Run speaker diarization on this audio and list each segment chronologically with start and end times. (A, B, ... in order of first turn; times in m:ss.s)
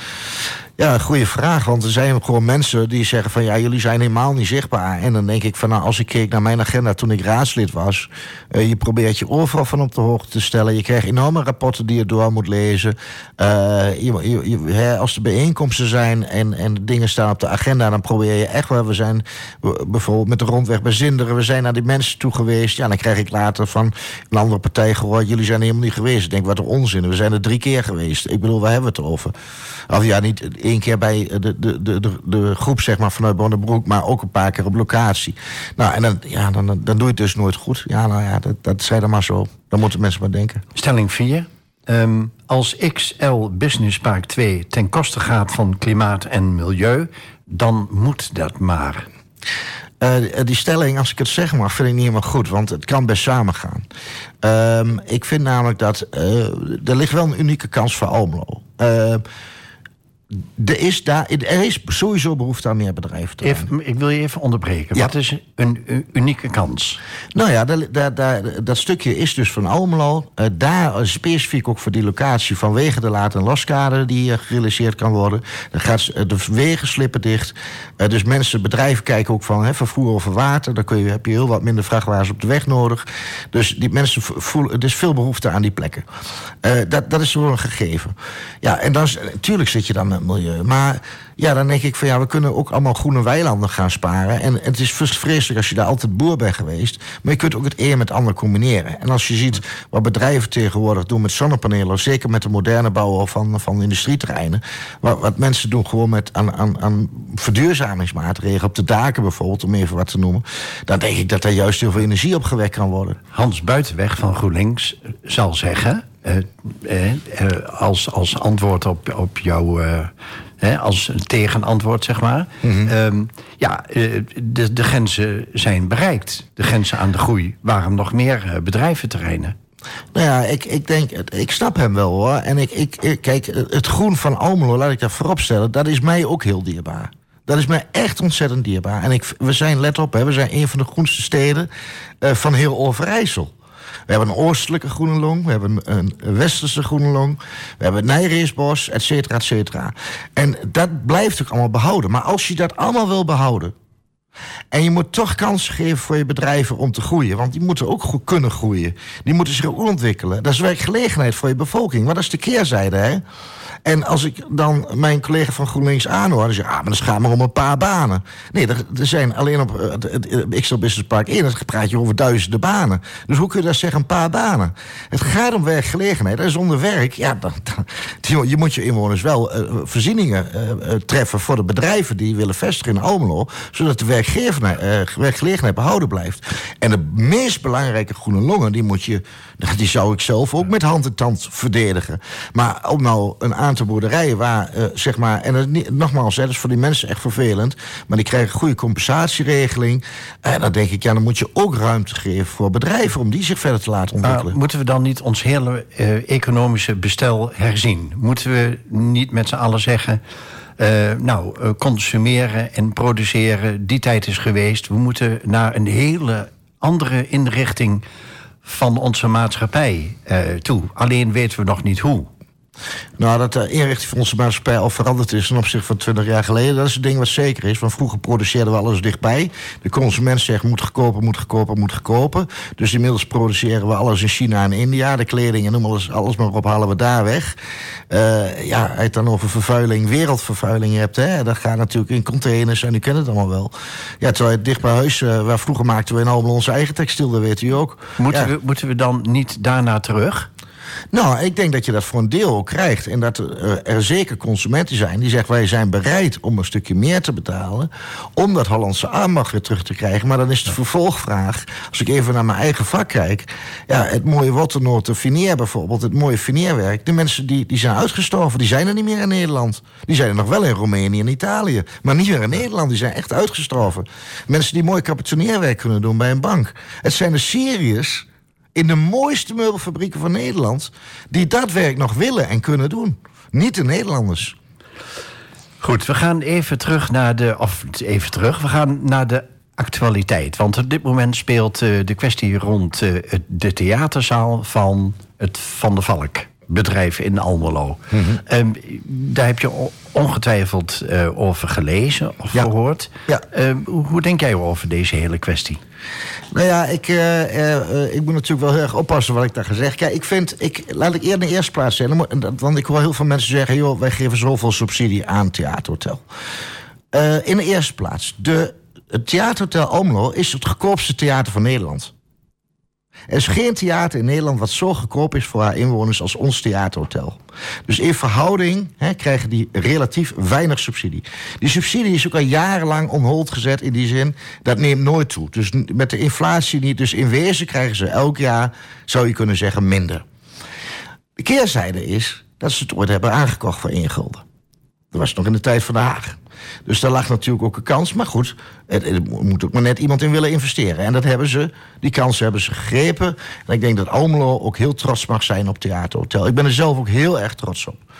0:00.8-0:29.3 A
0:29.9-0:40.6 A
0:40.7-0:49.1 B
0:50.0-0:53.8 A
0:54.4-0:59.2 A
1:00.6-1:03.7 A
1:03.4-1:07.0 B
1:07.3-1:26.0 A
1:26.6-1:53.2 A
1:53.3-2:09.5 B
2:02.6-2:02.9 A
2:10.1-2:21.7 A
2:22.2-2:23.5 A
2:24.1-2:33.7 A
2:34.7-2:43.2 A
2:43.8-3:24.6 A
3:24.2-3:30.2 B
3:30.8-3:38.0 B
3:38.6-3:42.3 B
3:43.2-3:57.6 A
3:58.1-4:08.5 A
4:08.2-4:10.5 B
4:11.1-4:44.5 A
4:45.8-5:05.8 B
4:58.1-4:58.4 A
5:06.5-5:16.2 A
5:17.1-5:22.1 A
5:23.3-5:40.2 A
5:41.4-5:44.4 A
5:45.1-5:58.0 A